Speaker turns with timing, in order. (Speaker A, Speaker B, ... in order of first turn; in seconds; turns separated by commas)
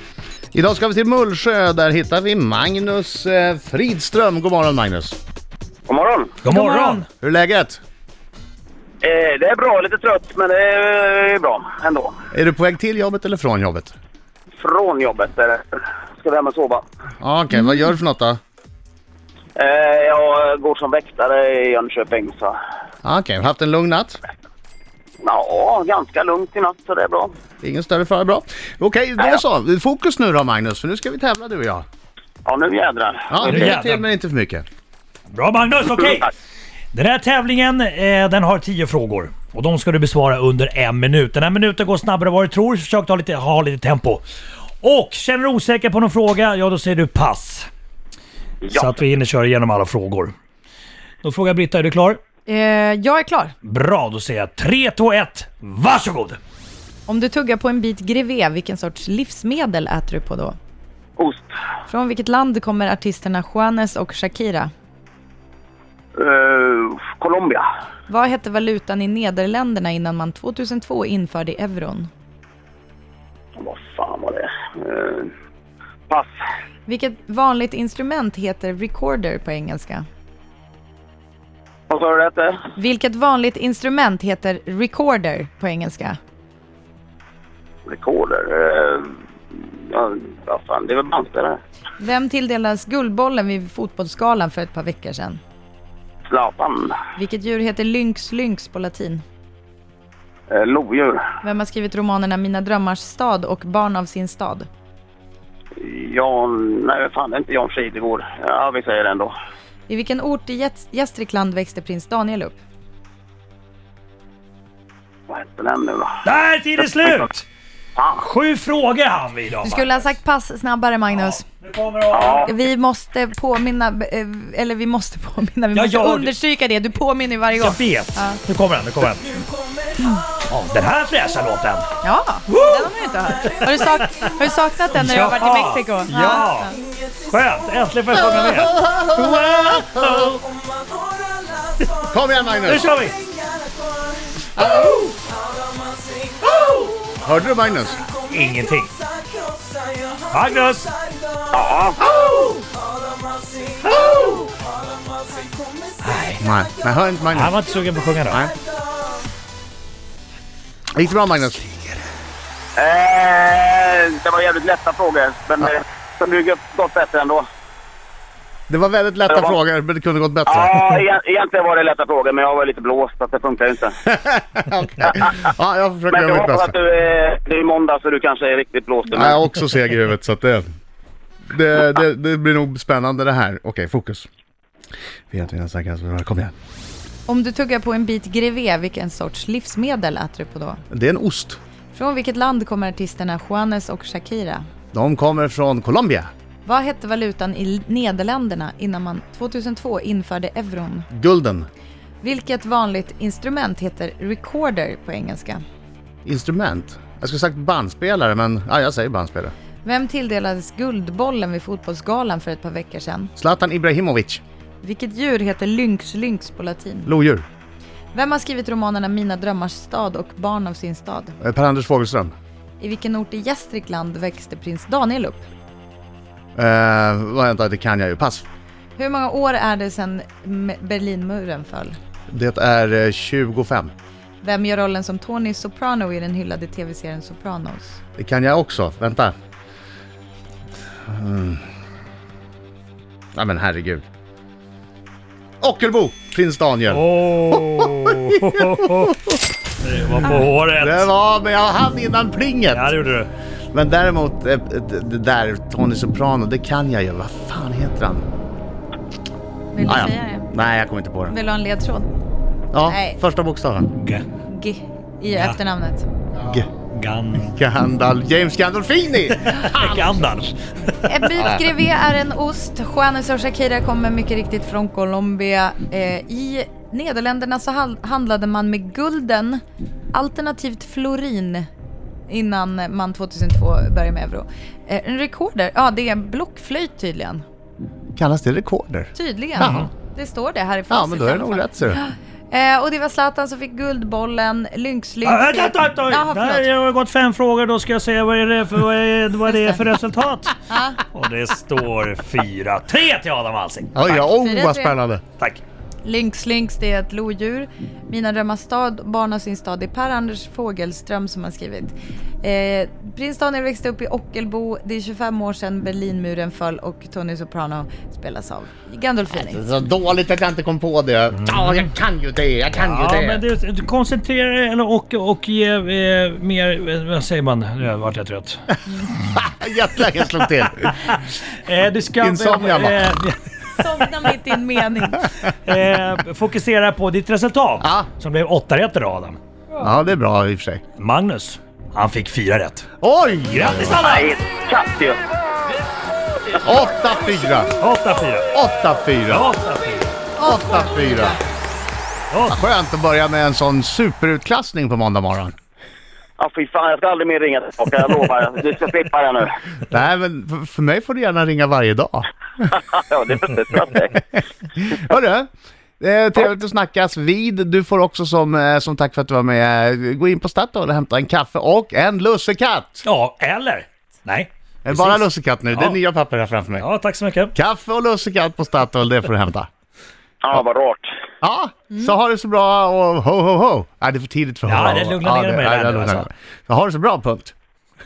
Speaker A: 0.5-5.2, Speaker B: 5.9-6.4, Speaker C: 6.4-7.1, Speaker D: 6.5-7.0, Speaker A: 7.2-7.8, Speaker B: 9.0-12.2, Speaker A: 12.3-13.9, Speaker B: 14.6-16.8, Speaker A: 17.2-18.4, Speaker B: 19.6-22.6, Speaker A: 23.0-24.2, Speaker B: 25.2-27.3, Speaker A: 27.6-31.8, Speaker B: 32.4-33.8, Speaker A: 33.3-34.6, Speaker C: 33.4-34.0, Speaker C: 35.3-36.3, Speaker C: 36.9-44.2, Speaker C: 44.8-47.7, Speaker B: 48.6-48.9, Speaker C: 48.7-50.3, Speaker C: 51.2-52.2, Speaker D: 52.5-53.5, Speaker C: 53.6-56.4, Speaker D: 57.1-60.6, Speaker B: 61.2-61.5, Speaker D: 61.9-64.7, Speaker B: 66.2-67.6, Speaker D: 68.1-72.1, Speaker B: 73.6-75.3, Speaker B: 76.1-76.3, Speaker D: 76.8-80.1, Speaker B: 81.9-82.6, Speaker D: 82.8-86.2, Speaker B: 87.9-91.6, Speaker D: 92.0-95.4, Speaker B: 96.3-97.0, Speaker D: 97.2-99.2, Speaker B: 100.5-101.2, Speaker D: 101.4-104.7, Speaker B: 105.8-109.3, Speaker D: 109.9-112.6, Speaker B: 115.3-116.2, Speaker C: 116.2-117.5, Speaker B: 118.0-118.2, Speaker C: 118.2-120.1, Speaker D: 119.6-121.4, Speaker C: 121.1-122.5, Speaker B: 122.1-122.5, Speaker D: 122.4-128.4, Speaker C: 125.7-126.3, Speaker C: 127.6-129.5, Speaker C: 130.5-132.0, Speaker D: 132.0-136.8, Speaker C: 132.5-132.9, Speaker C: 133.5-134.2, Speaker C: 134.9-140.5, Speaker A: 138.3-140.1, Speaker A: 142.1-142.9, Speaker C: 142.7-143.2, Speaker A: 144.6-145.1, Speaker A: 147.1-148.0, Speaker C: 148.3-149.0, Speaker C: 150.3-151.0, Speaker B: 151.5-152.1, Speaker C: 152.2-152.5, Speaker C: 153.8-154.5, Speaker C: 156.0-156.4, Speaker A: 156.4-157.6, Speaker C: 157.3-158.4, Speaker A: 160.9-161.8, Speaker B: 162.8-167.4, Speaker A: 168.7-170.8, Speaker B: 169.3-169.6, Speaker B: 170.5-174.0, Speaker A: 174.1-176.7, Speaker B: 176.1-179.4, Speaker A: 179.1-180.6, Speaker A: 181.5-184.3, Speaker A: 185.3-186.5, Speaker D: 187.3-190.8, Speaker A: 190.9-191.6, Speaker D: 191.9-194.6, Speaker A: 194.9-196.3, Speaker D: 196.6-201.1, Speaker A: 201.1-201.7, Speaker D: 202.2-205.6, Speaker A: 206.2-209.5, Speaker D: 209.8-213.3, Speaker A: 213.4-214.4, Speaker D: 214.8-217.1, Speaker A: 217.1-217.4, Speaker D: 218.1-221.3, Speaker A: 221.4-222.3, Speaker D: 222.8-225.4, Speaker A: 226.6-228.4, Speaker D: 229.0-231.9, Speaker A: 232.3-233.9, Speaker D: 234.4-238.0, Speaker A: 238.2-239.3, Speaker A: 241.1-241.6, Speaker A: 243.3-244.0, Speaker A: 245.6-247.0, Speaker C: 246.9-249.3, Speaker C: 249.8-251.1, Speaker A: 250.8-252.9, Speaker C: 252.7-253.3, Speaker A: 253.7-258.2, Speaker D: 259.7-260.5, Speaker A: 259.8-261.3, Speaker D: 261.3-262.1, Speaker A: 262.7-263.9, Speaker D: 262.8-263.2, Speaker C: 263.9-264.2, Speaker D: 264.5-266.1, Speaker C: 265.3-265.6, Speaker A: 266.4-266.7, Speaker C: 266.9-267.6, Speaker A: 267.5-270.2, Speaker C: 269.4-270.6, Speaker D: 271.0-281.7, Speaker A: 271.4-271.7, Speaker D: 282.3-287.4, Speaker A: 288.1-289.9, Speaker D: 289.1-296.7, Speaker C: 289.6-289.9, Speaker A: 290.9-292.0, Speaker C: 295.2-304.1, Speaker D: 300.7-301.0, Speaker A: 303.9-305.2, Speaker D: 304.1-305.0, Speaker D: 306.0-319.6, Speaker A: 319.4-323.4, Speaker C: 321.3-321.9, Speaker C: 322.7-328.7, Speaker A: 329.3-330.9, Speaker C: 331.0-333.4, Speaker A: 332.2-333.1, Speaker D: 333.8-335.3, Speaker C: 335.6-339.4, Speaker A: 337.8-338.1, Speaker A: 339.8-340.8, Speaker C: 341.0-342.9, Speaker A: 343.0-344.1, Speaker C: 343.5-344.3, Speaker B: 344.0-345.2, Speaker A: 346.6-347.7, Speaker C: 347.8-348.5, Speaker A: 348.5-349.5, Speaker C: 349.3-350.2, Speaker D: 350.4-351.4, Speaker A: 350.4-351.4, Speaker C: 352.3-352.6, Speaker A: 352.5-355.5, Speaker B: 356.4-359.5, Speaker A: 359.9-362.7, Speaker B: 362.7-364.2, Speaker A: 364.8-365.5, Speaker A: 366.0-373.0, Speaker C: 373.0-376.0, Speaker A: 374.8-376.9, Speaker C: 376.8-377.5, Speaker A: 377.5-379.7, Speaker B: 380.4-381.1, Speaker A: 381.4-387.5, Speaker C: 384.7-386.3